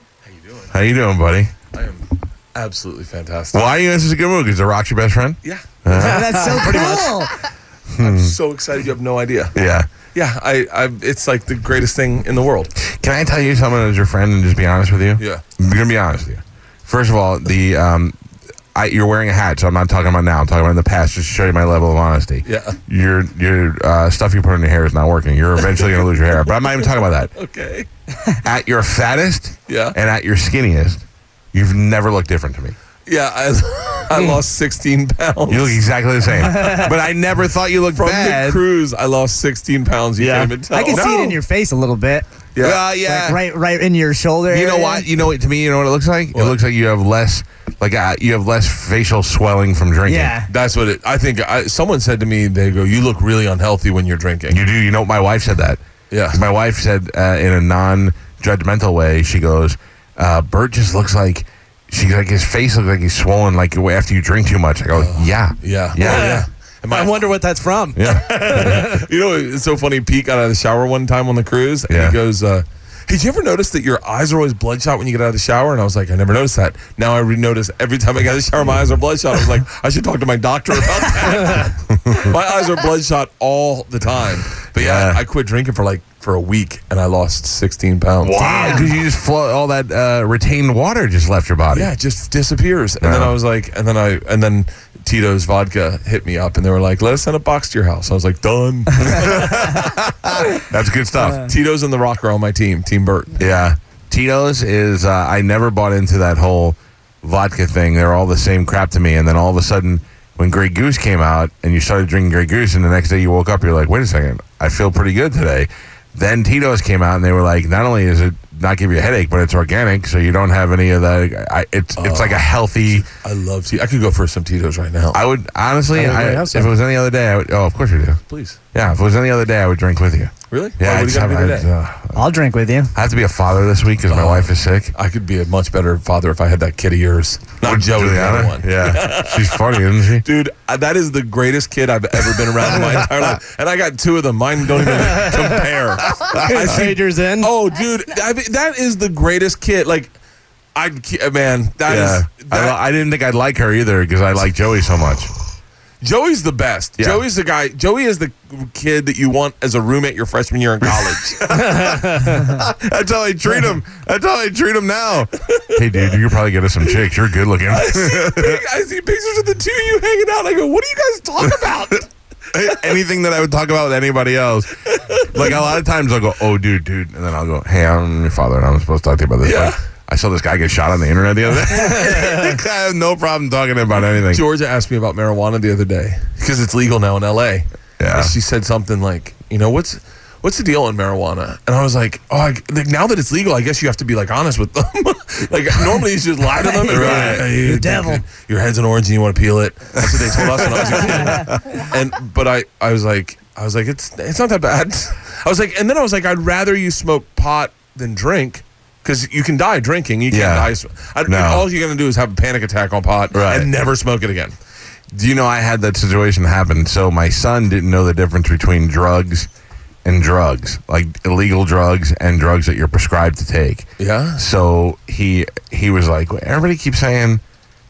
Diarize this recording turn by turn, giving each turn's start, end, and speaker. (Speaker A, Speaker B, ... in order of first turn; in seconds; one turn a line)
Speaker A: 0.2-0.8
Speaker B: 0.7-1.5
Speaker A: 1.7-3.7
Speaker B: 3.5-6.8
Speaker C: 5.9-7.1
Speaker D: 6.0-7.4
Speaker B: 7.9-8.4
Speaker A: 8.0-9.6
Speaker B: 9.5-9.9
Speaker A: 10.1-12.7
Speaker B: 12.8-18.1
Speaker B: 18.8-27.3
Speaker A: 22.4-22.8
Speaker A: 27.4-27.9
Speaker B: 28.4-32.8
Speaker A: 29.7-30.0
Speaker A: 33.1-35.8
Speaker B: 35.5-38.6
Speaker D: 36.4-37.0
Speaker A: 37.9-41.4
Speaker D: 40.2-42.3
Speaker A: 42.5-42.8
Speaker B: 42.6-43.4
Speaker D: 43.0-45.1
Speaker B: 44.5-50.4
Speaker A: 46.3-46.6
Speaker D: 50.1-50.5
Speaker A: 50.5-54.6
Speaker B: 54.5-66.5
Speaker A: 56.1-56.4
Speaker A: 65.0-67.2
Speaker C: 66.0-69.0
Speaker B: 68.0-68.8
Speaker A: 68.1-88.9
Speaker B: 71.9-72.2
Speaker B: 82.0-82.3
Speaker B: 84.7-85.2
Speaker B: 88.2-91.9
Speaker D: 88.4-88.9
Speaker A: 91.7-99.9
Speaker B: 93.0-93.3
Speaker B: 99.0-101.5
Speaker A: 101.2-103.4
Speaker B: 103.4-123.1
Speaker A: 122.0-125.2
Speaker B: 125.1-128.2
Speaker C: 126.0-126.4
Speaker D: 126.0-126.5
Speaker A: 128.3-128.6
Speaker B: 128.7-132.3
Speaker A: 130.5-131.7
Speaker D: 132.2-132.9
Speaker B: 132.9-134.9
Speaker A: 134.1-150.2
Speaker B: 137.6-140.3
Speaker B: 142.3-143.4
Speaker B: 145.0-145.4
Speaker B: 146.0-146.9
Speaker C: 146.3-147.5
Speaker A: 150.8-152.8
Speaker B: 151.8-155.3
Speaker A: 156.0-161.9
Speaker B: 157.0-157.2
Speaker B: 160.8-168.6
Speaker C: 161.6-162.5
Speaker A: 167.7-172.1
Speaker B: 172.5-184.4
Speaker A: 174.9-175.6
Speaker A: 179.4-179.8
Speaker A: 181.7-182.6
Speaker A: 184.2-214.6
Speaker B: 188.0-188.3
Speaker D: 196.5-198.3
Speaker B: 196.9-197.5
Speaker B: 200.0-201.8
Speaker B: 210.3-210.7
Speaker B: 211.3-211.7
Speaker B: 213.3-213.7
Speaker B: 215.1-219.5
Speaker B: 220.1-227.4
Speaker A: 224.0-224.4